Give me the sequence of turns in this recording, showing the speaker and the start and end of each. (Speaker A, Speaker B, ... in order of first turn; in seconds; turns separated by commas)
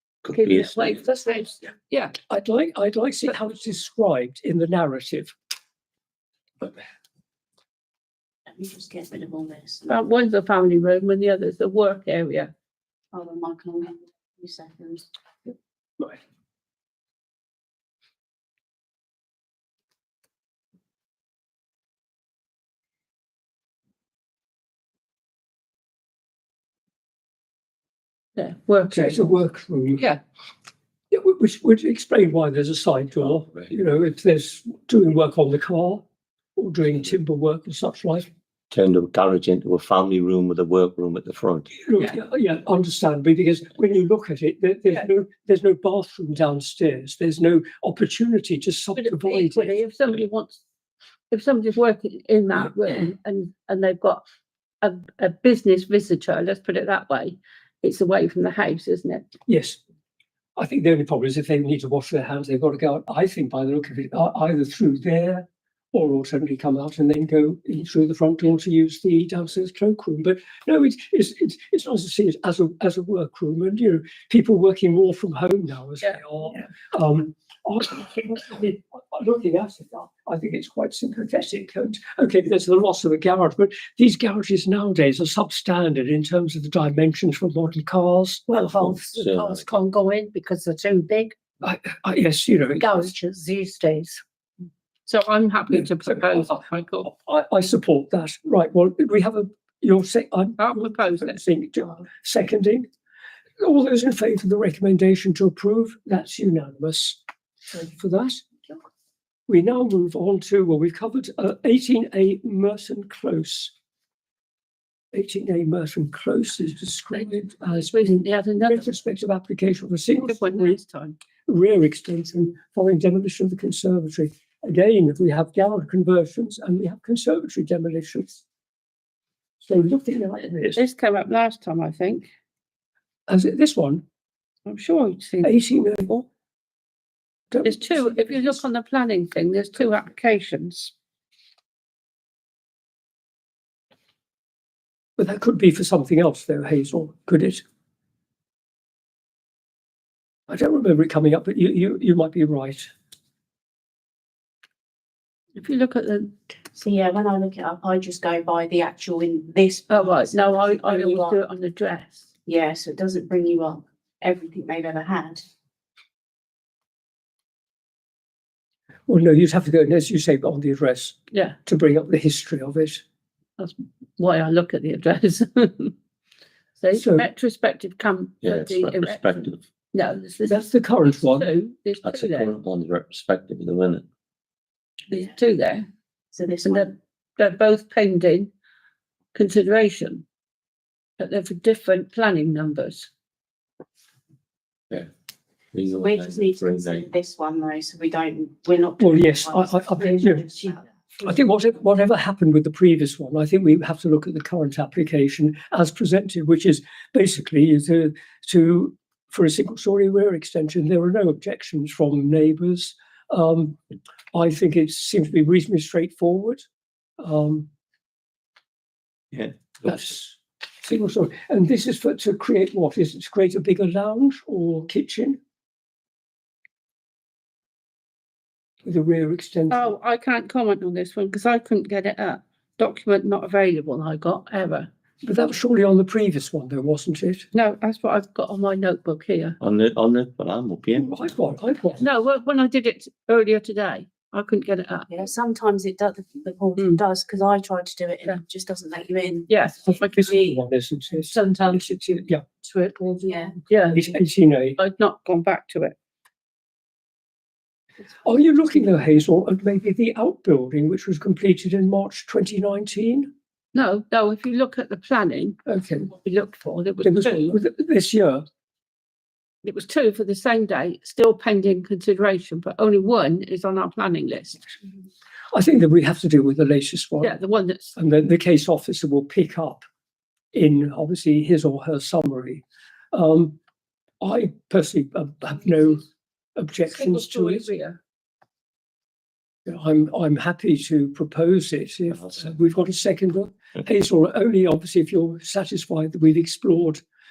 Speaker A: 0.2-1.0, Speaker B: 0.3-2.2, Speaker C: 2.2-5.3, Speaker D: 8.5-9.9, Speaker B: 9.9-12.5, Speaker D: 13.1-15.1, Speaker B: 28.4-29.3, Speaker C: 28.9-30.1, Speaker C: 31.1-36.0, Speaker A: 33.3-33.6, Speaker C: 36.6-38.3, Speaker A: 38.7-41.7, Speaker C: 41.7-49.8, Speaker B: 49.0-50.6, Speaker B: 51.3-54.2, Speaker B: 54.8-59.3, Speaker C: 59.5-59.8, Speaker C: 60.6-89.0, Speaker A: 88.5-89.7, Speaker E: 88.6-91.3, Speaker C: 91.6-93.1, Speaker E: 92.8-94.2, Speaker B: 95.1-97.1, Speaker C: 96.1-102.9, Speaker B: 100.6-101.4, Speaker C: 103.6-108.5, Speaker C: 109.5-113.7, Speaker C: 115.1-120.8, Speaker B: 117.9-118.9, Speaker B: 120.2-121.2, Speaker C: 121.5-128.4, Speaker C: 129.6-130.8, Speaker B: 130.8-132.3, Speaker C: 133.3-134.0, Speaker B: 134.7-136.2, Speaker C: 135.4-136.1, Speaker C: 137.5-138.6, Speaker B: 137.6-140.9, Speaker C: 145.2-147.6, Speaker C: 150.5-152.9, Speaker B: 155.6-156.3, Speaker D: 156.8-161.4, Speaker B: 159.9-162.3, Speaker D: 162.5-165.4, Speaker C: 169.1-173.0, Speaker B: 171.3-171.6, Speaker B: 173.6-175.9, Speaker B: 176.8-180.7, Speaker C: 176.9-177.3, Speaker A: 178.4-179.6, Speaker C: 180.5-181.5, Speaker B: 181.2-182.5, Speaker A: 182.0-184.1, Speaker B: 185.1-185.9, Speaker D: 186.3-186.9, Speaker B: 186.7-188.5, Speaker B: 189.3-190.2, Speaker B: 191.2-193.1, Speaker A: 195.7-197.1, Speaker D: 195.9-200.8, Speaker C: 199.0-200.4, Speaker C: 201.2-213.8, Speaker C: 214.3-216.6, Speaker C: 217.2-217.7, Speaker A: 219.3-219.9, Speaker C: 219.8-225.4, Speaker C: 228.8-229.9, Speaker B: 229.7-234.9, Speaker C: 235.2-237.5, Speaker B: 237.5-239.6, Speaker A: 239.6-241.1, Speaker C: 240.9-242.0, Speaker B: 242.0-245.1, Speaker D: 245.1-249.5, Speaker B: 249.5-250.1, Speaker C: 249.9-252.4, Speaker D: 250.1-250.6, Speaker E: 251.3-253.5, Speaker D: 253.3-253.5, Speaker B: 253.7-254.0, Speaker C: 253.9-254.8, Speaker B: 254.8-255.9, Speaker C: 258.2-263.3, Speaker B: 263.7-267.6, Speaker C: 265.7-266.1, Speaker C: 267.0-268.4, Speaker B: 269.6-274.7, Speaker C: 275.5-277.4, Speaker B: 277.2-278.0, Speaker C: 277.9-279.9, Speaker C: 280.5-283.6, Speaker C: 284.2-287.7, Speaker B: 286.9-288.0, Speaker C: 289.7-297.0